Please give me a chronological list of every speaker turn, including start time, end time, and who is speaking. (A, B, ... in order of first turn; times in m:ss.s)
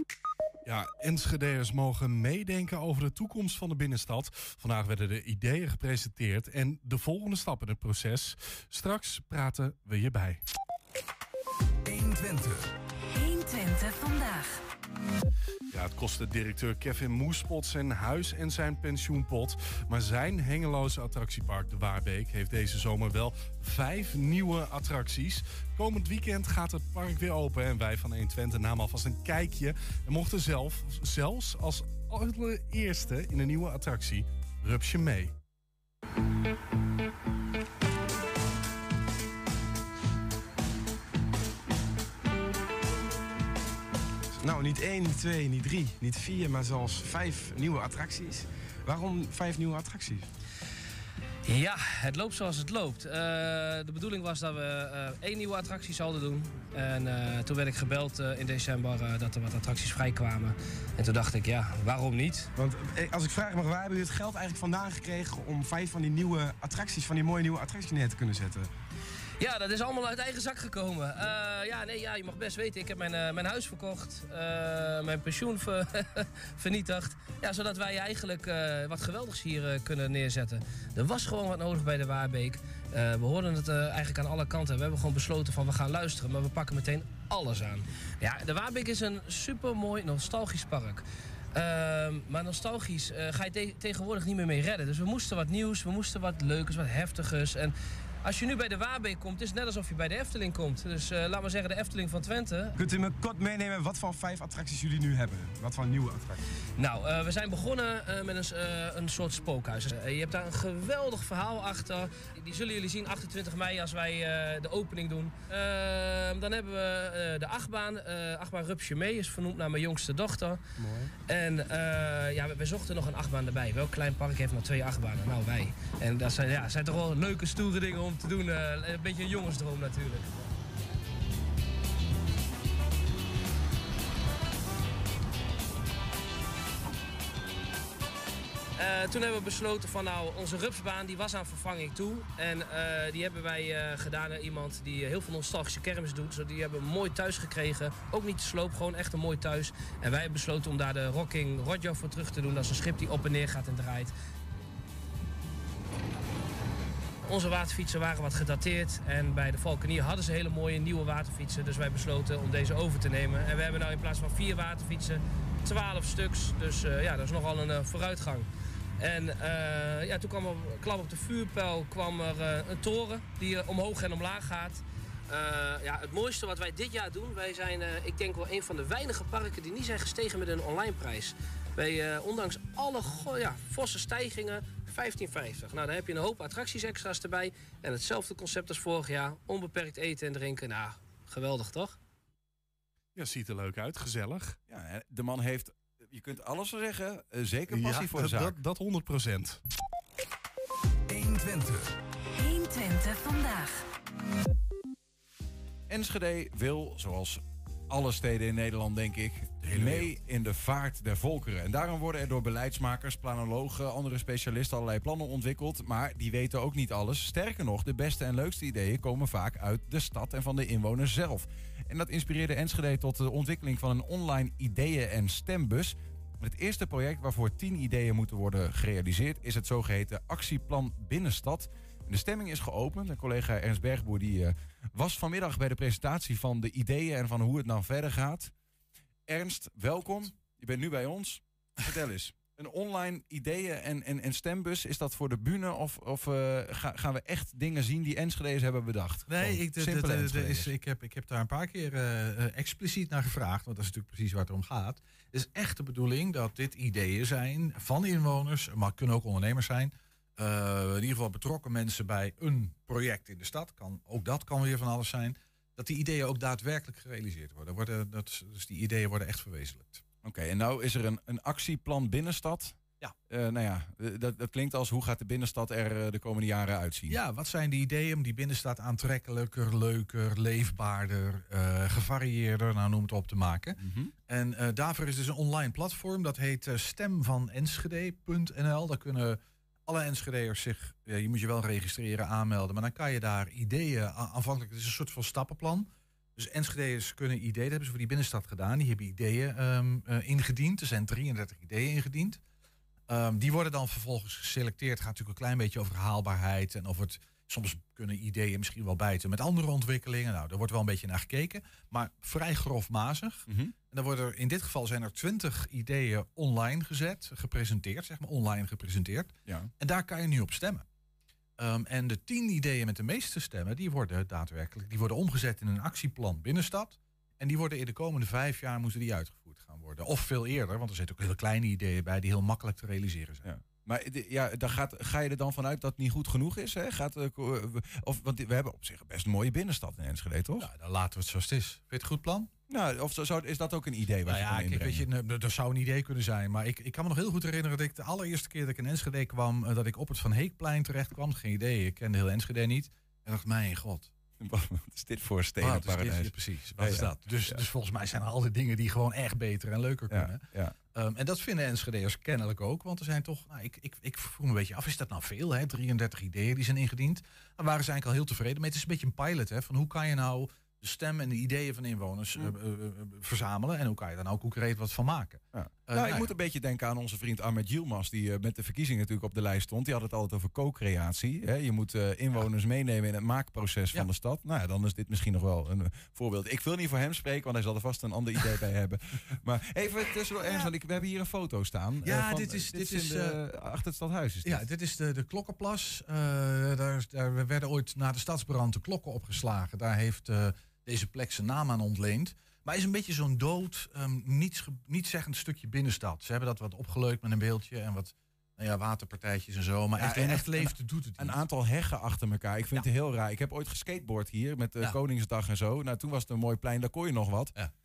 0:00.6-0:10.4 A
0:11.9-0:12.7 A
0:13.1-0:14.6 B
0:15.7-0:35.3 A
0:44.4-0:50.3 C
0:51.4-1:02.5 D
1:02.6-1:08.7 C
1:09.4-1:42.7 D
1:42.8-1:46.4 C
1:46.8-2:00.6 D
2:01.3-2:10.3 D
2:18.8-2:34.1 D
2:37.2-2:48.5 D
2:49.0-3:12.0 D
3:13.1-3:14.6 A
3:14.7-3:18.6 E
3:17.7-3:19.6 A
3:21.1-3:21.9 A
3:22.3-3:23.9 B
3:25.9-3:58.5 E
3:59.3-4:10.7 E
4:09.3-4:30.0 F
4:30.2-4:37.2 E
4:37.1-5:02.4 F
4:43.8-4:44.1 E
5:03.1-5:20.8 F
5:13.5-5:13.7 E
5:21.6-5:33.4 F
5:33.4-5:40.7 E
5:40.6-5:42.5 F
5:42.7-5:45.0 E
5:44.2-5:54.1 F
5:54.4-5:57.6 E
5:55.6-6:16.3 F
6:00.1-6:00.7 E
6:15.5-6:34.6 E
6:30.4-6:30.7 F
6:32.0-6:33.4 F
6:34.4-6:51.4 F
6:50.0-6:57.5 E